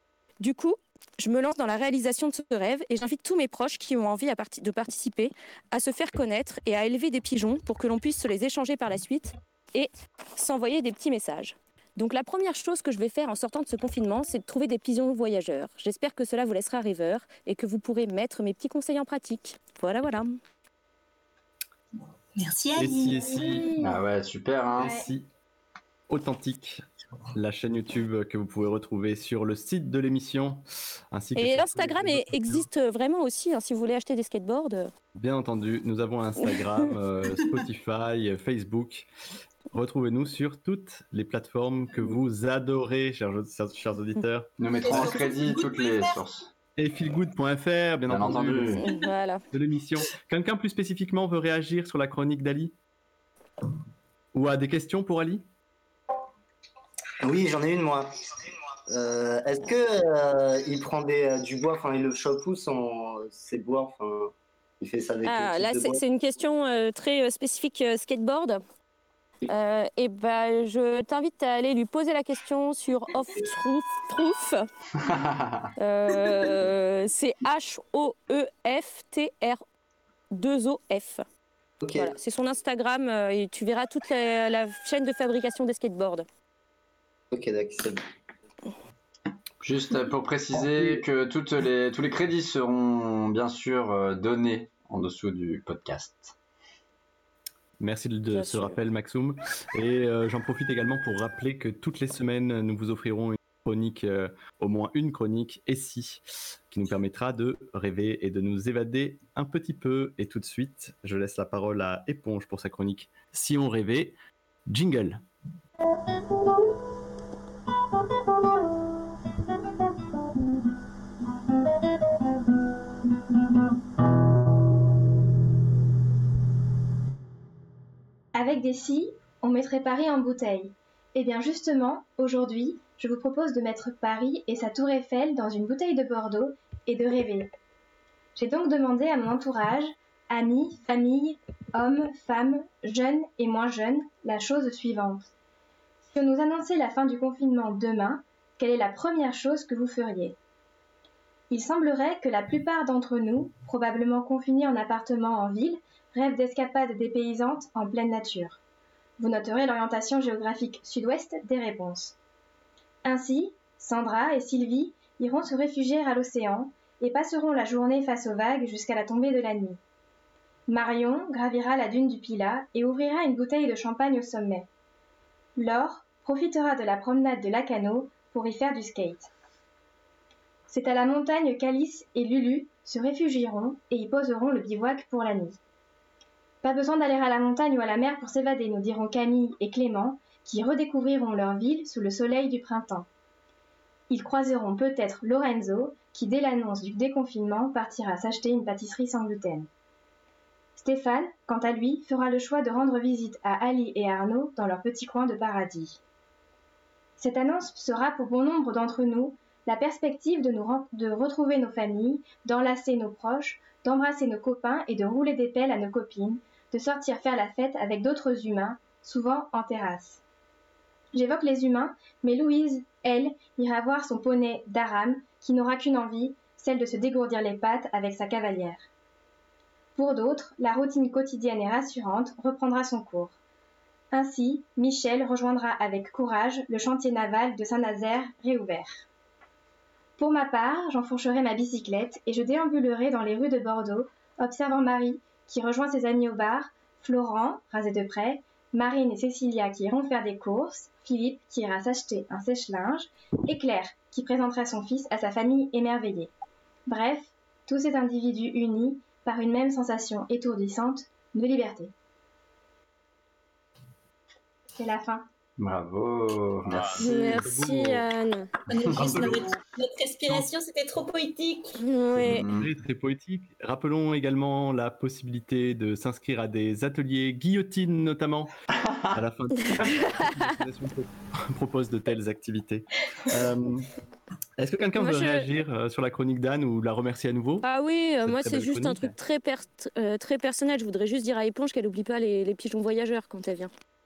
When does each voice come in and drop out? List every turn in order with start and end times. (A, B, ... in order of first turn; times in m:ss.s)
0:00.4-0:20.4 A
0:22.4-0:23.6 B
0:22.8-0:23.7 C
0:23.4-0:24.0 D
0:23.8-0:25.0 E
0:24.8-0:25.3 C
0:24.8-0:25.1 D
0:26.1-0:32.7 C
0:31.4-0:34.9 A
0:35.2-0:39.1 C
0:39.7-0:45.2 C
0:44.6-0:46.5 E
0:44.8-0:46.2 B
0:46.8-0:48.9 C
0:48.1-0:48.8 E
0:48.8-0:49.4 A
0:49.5-0:52.7 C
0:54.3-0:55.4 C
0:57.2-0:58.1 F
0:58.9-1:06.0 F
1:05.2-1:08.6 A
1:09.5-1:14.7 A
1:15.1-1:15.7 E
1:15.8-1:19.6 A
1:20.3-1:21.2 A
1:21.8-1:22.2 F
1:22.0-1:26.3 A
1:27.3-1:28.0 F
1:29.6-1:36.4 E
1:30.6-1:31.0 F
1:37.8-1:54.2 C
1:38.3-1:38.8 A
1:54.7-1:55.2 C
2:08.3-2:17.5 D
2:18.4-2:25.3 D
2:26.1-2:30.4 D
2:31.5-2:38.6 D
2:39.2-2:42.2 D
2:43.0-2:49.8 D
2:50.7-2:54.7 D
2:55.6-2:59.3 D
3:00.7-3:05.6 D
3:06.6-3:13.1 D
3:14.1-3:19.7 D
3:20.8-3:26.0 D
3:27.2-3:40.2 D
3:41.1-3:48.9 D
3:50.0-3:53.4 D
3:54.1-3:59.1 D
4:00.2-4:16.3 D
4:16.9-4:21.9 D
4:24.8-4:25.2 D
4:25.6-4:27.0 E
4:26.7-4:28.0 C
4:27.0-4:28.5 A
4:28.7-4:31.8 B
4:29.0-4:29.5 C
4:31.8-4:32.4 A
4:32.1-4:38.5 C
4:32.2-4:32.7 E
4:39.1-4:43.9 C
4:44.6-4:47.7 C
4:45.0-4:45.5 A
4:47.6-4:53.7 A
4:48.2-4:49.2 C